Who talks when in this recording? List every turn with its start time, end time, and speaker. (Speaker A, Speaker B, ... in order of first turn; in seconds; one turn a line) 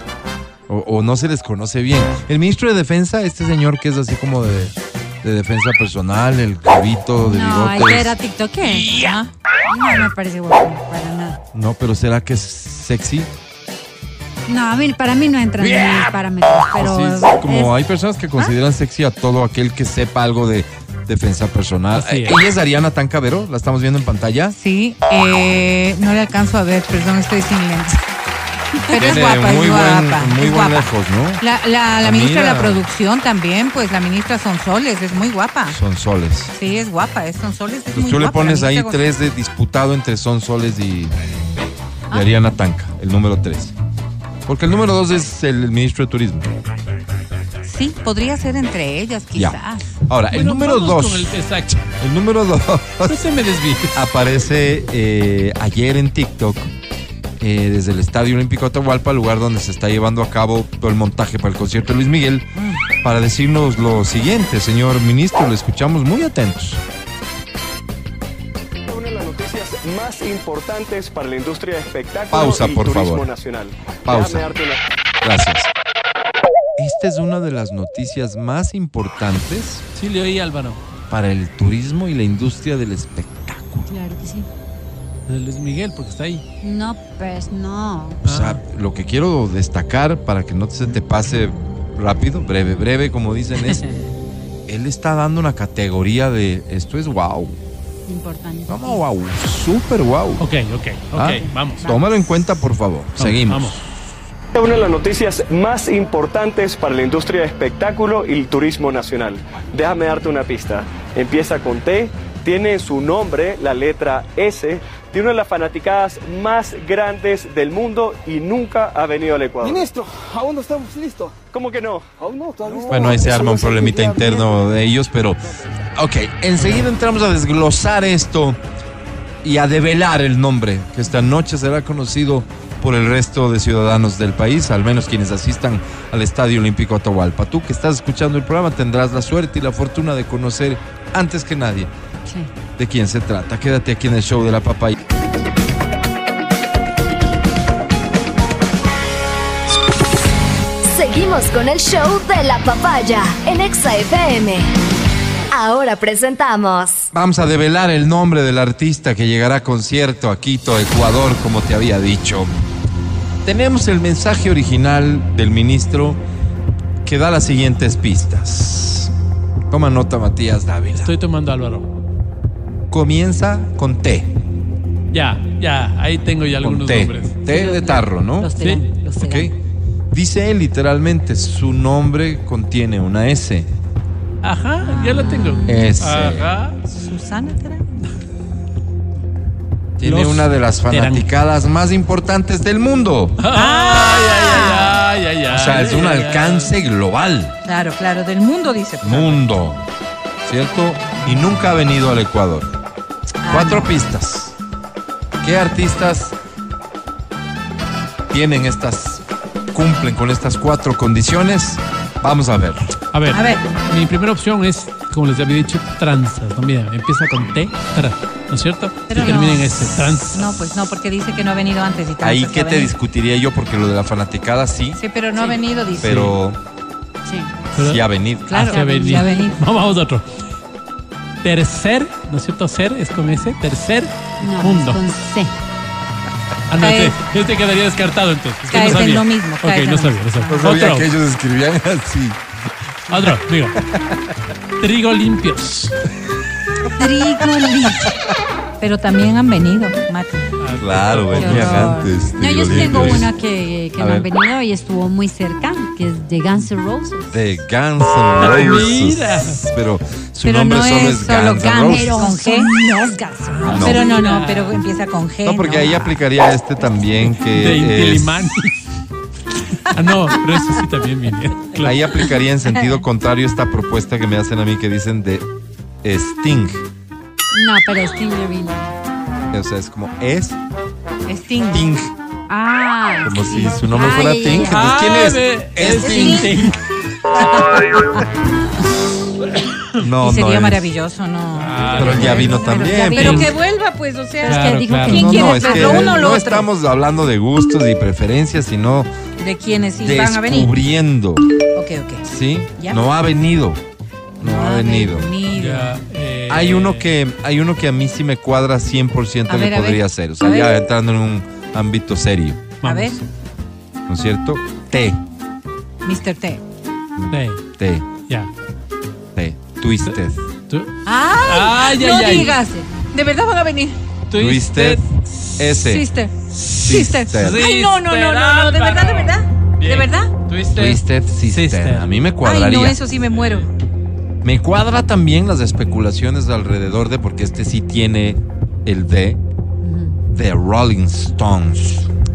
Speaker A: 0.7-8.1
Speaker B: 7.2-8.9
Speaker C: 8.7-9.3
Speaker B: 9.7-11.4
Speaker A: 11.5-13.3
Speaker B: 14.5-17.7
Speaker A: 16.7-24.5
Speaker D: 21.9-22.4
Speaker C: 24.6-28.0
Speaker C: 28.9-30.9
Speaker A: 28.9-31.4
Speaker C: 31.4-35.8
Speaker A: 32.0-32.8
Speaker A: 35.7-36.5
Speaker C: 36.5-39.0
Speaker A: 37.9-41.1
Speaker A: 42.1-43.7
Speaker A: 44.5-46.5
Speaker C: 47.6-49.8
Speaker A: 50.1-51.3
Speaker D: 50.3-51.9
Speaker A: 52.0-53.2
Speaker D: 53.1-54.0
Speaker A: 53.9-56.7
Speaker A: 57.4-62.5
Speaker A: 63.0-66.8
Speaker E: 68.9-74.8
Speaker A: 72.3-73.3
Speaker A: 74.0-74.5
Speaker A: 75.2-75.7
Speaker A: 76.8-79.8
Speaker D: 79.9-80.8
Speaker A: 81.1-83.9
Speaker B: 83.9-84.5
Speaker D: 85.3-86.4
Speaker B: 86.6-88.2
Speaker D: 88.2-88.6
Speaker A: 88.2-93.8
Speaker A: 94.7-97.6
Speaker B: 98.1-99.0
Speaker A: 98.7-100.4
Speaker D: 100.4-101.8
Speaker A: 101.1-103.9
Speaker B: 101.4-102.0
Speaker D: 103.2-103.8
Speaker E: 104.5-119.9
Speaker F: 119.6-121.3
Speaker E: 121.4-123.2
Speaker F: 122.2-124.5
Speaker A: 122.8-125.4
Speaker A: 125.9-128.6
Speaker A: 129.4-141.9
Speaker A: 142.8-145.0
Speaker G: 150.8-154.7
Speaker G: 155.5-157.1
Speaker A: 157.1-162.6
Speaker A: 163.4-166.2
Speaker A: 167.0-169.1
Speaker A: 169.7-171.1
Speaker D: 170.9-171.9
Speaker A: 172.9-174.3
Speaker D: 175.1-177.4
Speaker A: 176.6-178.5
Speaker C: 177.5-179.5
Speaker D: 178.6-178.9
Speaker A: 179.2-179.5
Speaker A: 180.1-183.7
Speaker D: 184.4-186.8
Speaker B: 184.9-185.8
Speaker A: 185.7-186.5
Speaker C: 186.9-187.8
Speaker A: 190.0-193.4
Speaker D: 190.0-191.3
Speaker D: 193.4-196.7
Speaker C: 193.5-195.0
Speaker A: 195.5-197.6
Speaker C: 197.6-199.5
Speaker A: 199.0-199.8
Speaker A: 200.4-202.7
Speaker C: 203.4-203.9
Speaker A: 203.5-204.5
Speaker A: 205.4-206.4
Speaker A: 208.3-212.9
Speaker D: 213.1-220.4
Speaker C: 213.3-213.7
Speaker C: 219.1-222.9
Speaker A: 222.2-225.0
Speaker C: 224.9-226.2
Speaker A: 226.0-226.6
Speaker D: 226.0-226.3
Speaker B: 227.2-227.5
Speaker D: 227.7-230.2
Speaker A: 227.8-228.7
Speaker C: 228.5-229.6
Speaker B: 228.7-229.5
Speaker D: 231.4-235.1
Speaker B: 234.4-235.5
Speaker D: 236.7-241.1
Speaker C: 236.8-237.2
Speaker C: 238.7-240.6
Speaker A: 240.5-242.4
Speaker D: 243.1-243.8
Speaker D: 244.8-245.9
Speaker C: 246.9-248.1
Speaker C: 248.8-250.4
Speaker D: 250.6-251.9
Speaker A: 250.8-253.3
Speaker C: 251.4-252.1
Speaker B: 251.4-257.4
Speaker A: 254.0-254.3
Speaker A: 257.3-262.1
Speaker D: 258.4-259.6
Speaker C: 260.4-262.7
Speaker B: 261.9-263.7
Speaker D: 263.4-264.8
Speaker A: 263.6-264.0
Speaker C: 263.6-266.1
Speaker A: 265.4-268.4
Speaker D: 267.4-268.9
Speaker D: 269.8-272.0
Speaker A: 271.8-275.4
Speaker A: 276.0-276.8
Speaker B: 277.5-278.9
Speaker A: 279.5-280.6
Speaker C: 281.3-281.9
Speaker A: 281.7-282.1
Speaker B: 282.5-284.8
Speaker A: 283.2-286.7
Speaker D: 284.6-286.8
Speaker C: 286.0-286.7
Speaker A: 290.0-290.8
Speaker C: 290.2-296.7
Speaker D: 291.5-293.5
Speaker A: 292.0-293.4
Speaker B: 292.0-293.5
Speaker B: 294.4-296.1
Speaker D: 294.4-295.4
Speaker A: 295.1-299.1
Speaker C: 299.4-300.7
Speaker A: 300.0-301.4
Speaker C: 301.8-302.2
Speaker A: 302.2-303.8
Speaker C: 302.8-303.1
Speaker A: 304.4-305.3
Speaker C: 304.4-305.9
Speaker D: 305.5-307.1
Speaker A: 306.5-312.7
Speaker C: 309.5-310.8
Speaker D: 312.8-313.2
Speaker C: 312.8-313.1
Speaker A: 314.1-315.2
Speaker C: 316.0-316.6
Speaker A: 317.2-318.1
Speaker D: 317.3-317.6
Speaker A: 319.4-320.4
Speaker D: 320.7-322.6
Speaker C: 321.1-324.0
Speaker D: 324.3-325.5
Speaker A: 324.4-325.0
Speaker A: 325.6-326.1
Speaker C: 325.8-330.3
Speaker D: 326.6-332.2
Speaker A: 326.9-327.7
Speaker A: 330.7-333.0
Speaker C: 332.4-333.7
Speaker A: 334.4-339.4
Speaker B: 339.8-340.2
Speaker A: 340.3-342.1